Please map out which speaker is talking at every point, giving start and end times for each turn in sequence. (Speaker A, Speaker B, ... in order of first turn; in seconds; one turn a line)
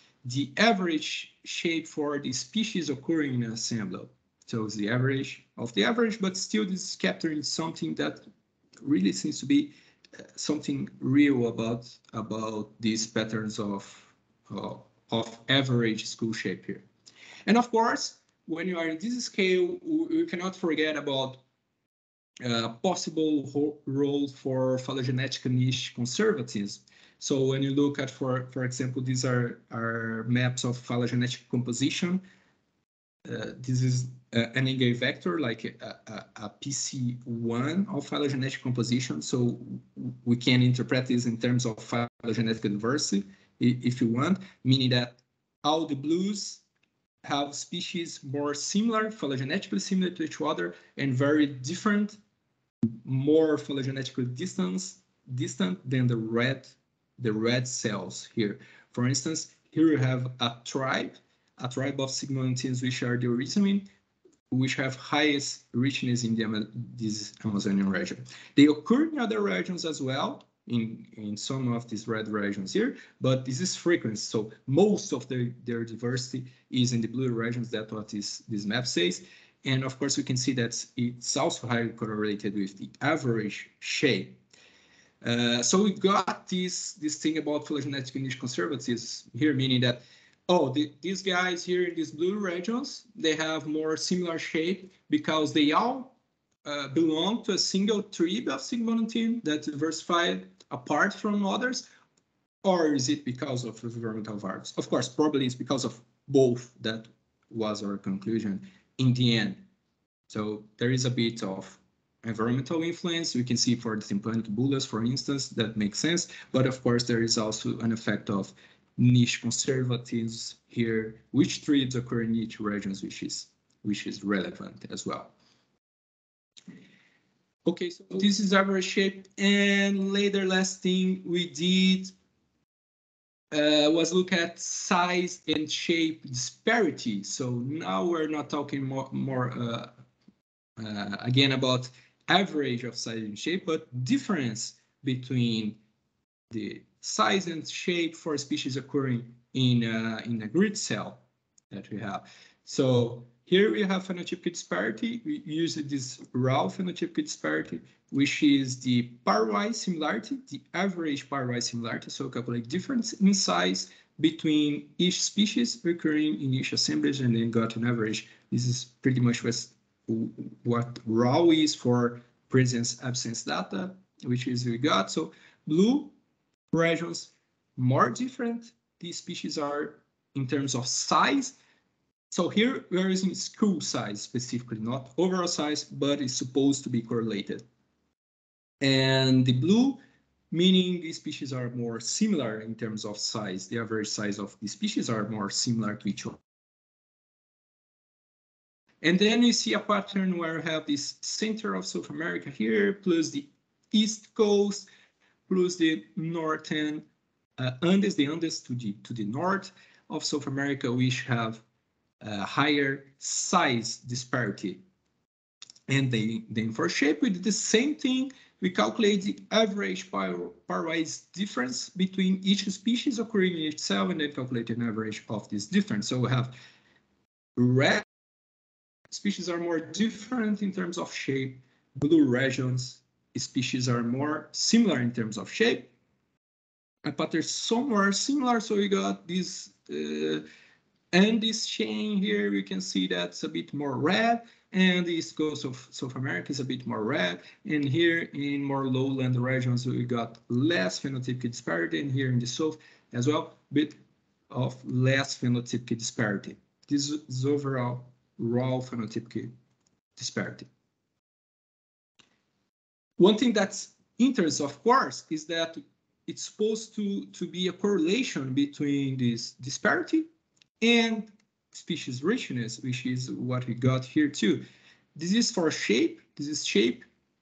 Speaker A: 0.2-8.2
Speaker A: 8.8-9.7
Speaker A: 10.3-16.9
Speaker A: 17.5-21.4
Speaker A: 22.4-32.2
Speaker A: 33.2-46.6
Speaker A: 47.2-52.2
Speaker A: 53.0-63.9
Speaker A: 64.5-84.4
Speaker A: 85.2-101.8
Speaker A: 102.6-109.6
Speaker A: 110.3-125.3
Speaker A: 127.7-132.1
Speaker A: 133.5-139.9
Speaker A: 140.8-145.8
Speaker A: 146.5-176.1
Speaker A: 176.7-181.6
Speaker A: 182.3-187.7
Speaker A: 188.8-190.0
Speaker A: 190.5-196.4
Speaker A: 199.0-204.8
Speaker A: 205.5-207.1
Speaker A: 207.6-211.6
Speaker A: 212.2-214.8
Speaker A: 215.9-226.5
Speaker A: 227.6-228.0
Speaker A: 229.1-235.9
Speaker A: 237.0-240.4
Speaker A: 241.1-253.9
Speaker A: 254.5-259.5
Speaker A: 260.2-260.7
Speaker A: 263.2-270.3
Speaker A: 270.8-274.6
Speaker A: 275.1-277.1